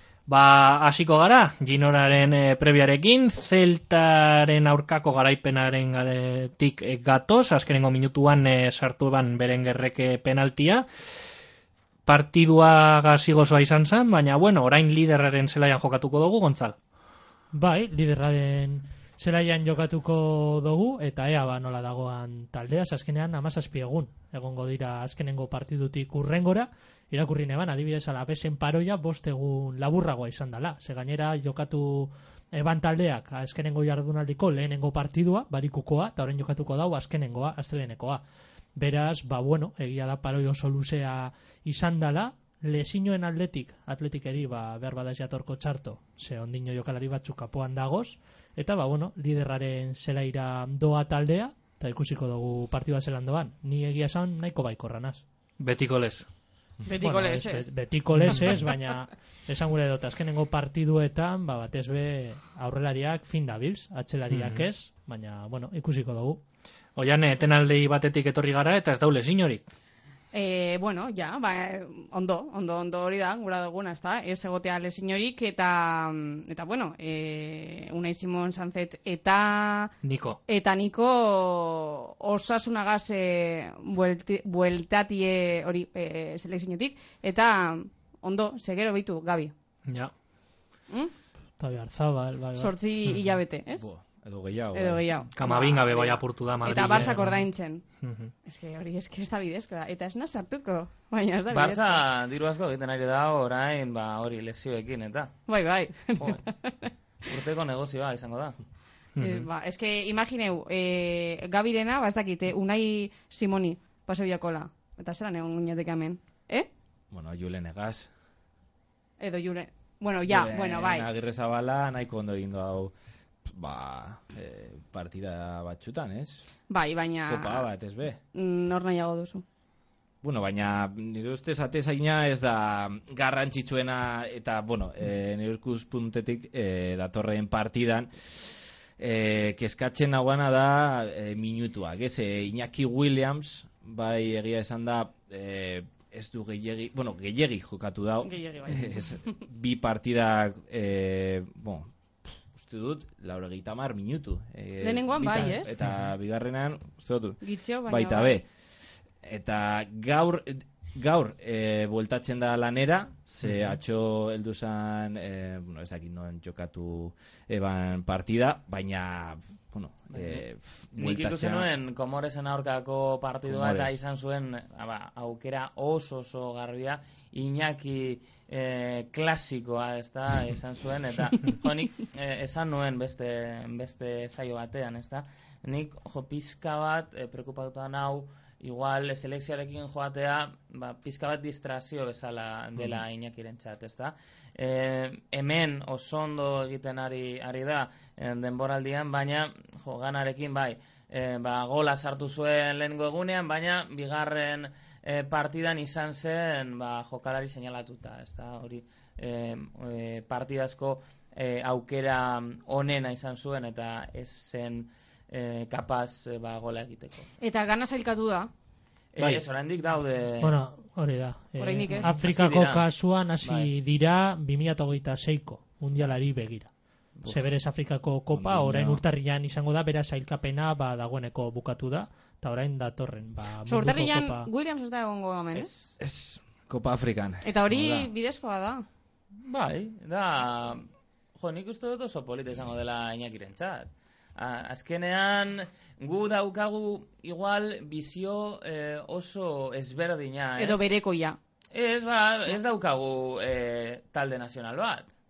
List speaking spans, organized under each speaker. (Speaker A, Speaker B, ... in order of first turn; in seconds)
Speaker A: 0.3-10.9, 12.1-16.8, 55.6-56.3, 58.2-58.7, 64.3-64.7, 67.0-69.6, 80.0-80.4, 89.9-90.1, 95.4-97.5, 98.0-98.3, 109.2-109.5, 163.4-163.8, 219.2-219.4
Speaker B: 17.5-38.2, 38.8-55.2, 56.9-66.4, 91.6-92.7, 220.4-226.7, 227.3-234.5
Speaker C: 56.8-57.7, 70.3-79.9, 80.5-89.5, 92.5-93.9, 94.7-97.8, 98.5-102.0, 105.5-106.9, 109.2-116.7, 119.2-121.1, 126.7-127.7, 128.3-129.4, 148.2-149.2, 154.8-155.8, 157.4-158.4, 217.4-218.5, 221.6-222.2, 233.7-235.7, 237.4-238.8, 250.6-251.4
Speaker D: 93.8-95.0, 117.1-118.1, 120.2-122.9, 123.5-126.5, 127.3-128.2, 130.2-151.9, 152.5-158.4, 159.2-171.7, 173.5-174.0, 228.3-229.0, 235.9-238.1
Speaker E: 101.5-105.4, 107.2-108.6, 170.1-170.4, 171.0-217.3, 219.2-220.6, 221.9-222.9, 223.4-223.7, 239.4-250.8, 251.7-255.1